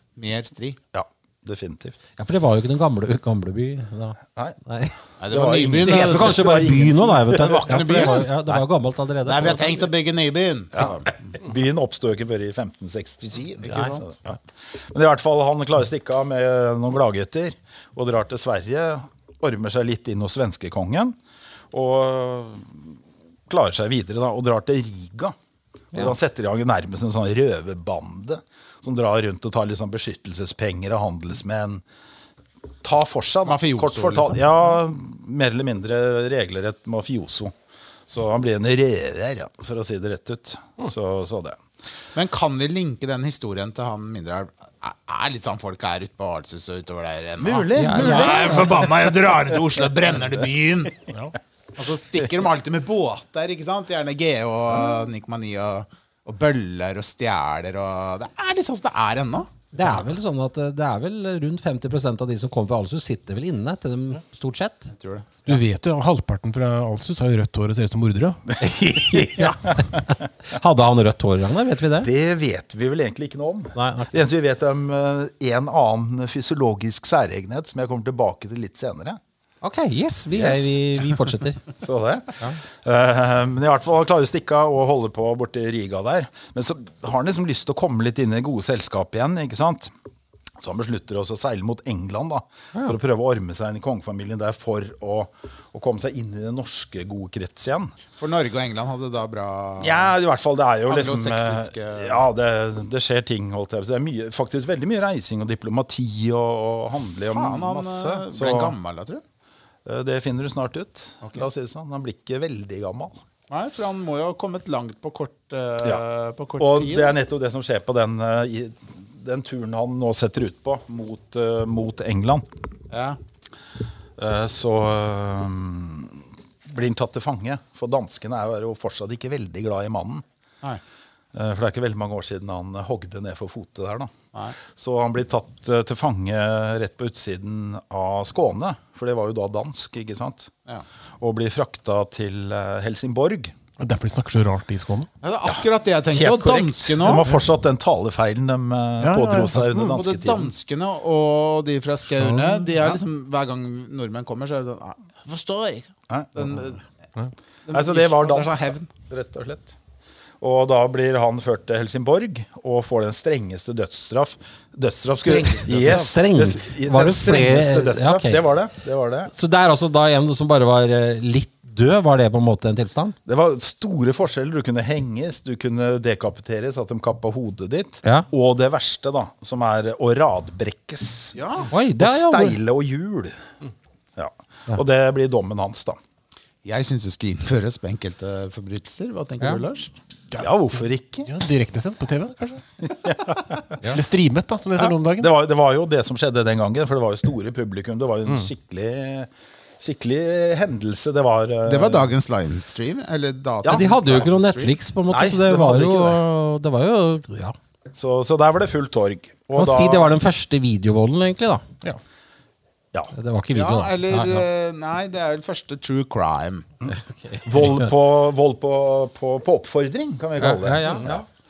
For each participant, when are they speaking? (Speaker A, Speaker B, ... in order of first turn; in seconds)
Speaker A: 0.2-0.8, 5.2-8.3, 9.3-11.1, 13.6-14.2, 33.5-34.4, 42.1-51.1, 51.8-59.5, 64.9-65.3, 98.2-100.2, 100.9-102.3, 107.2-109.2, 113.5-117.2, 122.9-123.2, 145.2-147.3, 149.9-156.8, 157.7-158.9, 165.2-166.1, 181.3-181.7, 186.7-189.9, 201.7-204.8, 213.5-216.7
Speaker B: 0.9-2.0, 5.3-8.2, 10.8-21.2, 21.7-22.9, 23.5-25.4, 25.9-31.8, 32.8-37.5, 38.1-41.6, 47.4-48.9, 69.1-69.4, 72.0-79.2, 80.4-81.1, 81.7-89.9, 90.6-97.9, 99.8-108.8, 109.9-113.2, 116.6-122.5, 124.2-130.2, 131.3-134.1, 134.7-140.5, 141.2-143.5, 145.4-150.5, 156.1-156.6, 157.7-159.8, 160.4-169.3, 173.3-181.4, 182.0-183.4, 184.2-186.0, 190.4-191.3, 192.8-193.7, 194.8-199.3, 199.8-202.1, 205.1-206.2, 207.9-210.2, 216.8-221.2
Speaker C: 2.2-5.0, 5.9-9.9, 47.8-48.7, 59.7-64.9, 68.6-72.1, 73.8-74.1, 79.6-81.6, 165.3-168.4, 169.3-173.2, 181.7-182.6, 203.7-207.6, 209.6-211.6, 213.1-214.4, 217.1-217.5, 220.4-221.2
Speaker D: 65.5-68.5, 143.8-145.1, 149.0-150.0, 152.2-152.7, 191.3-192.6, 193.9-195.3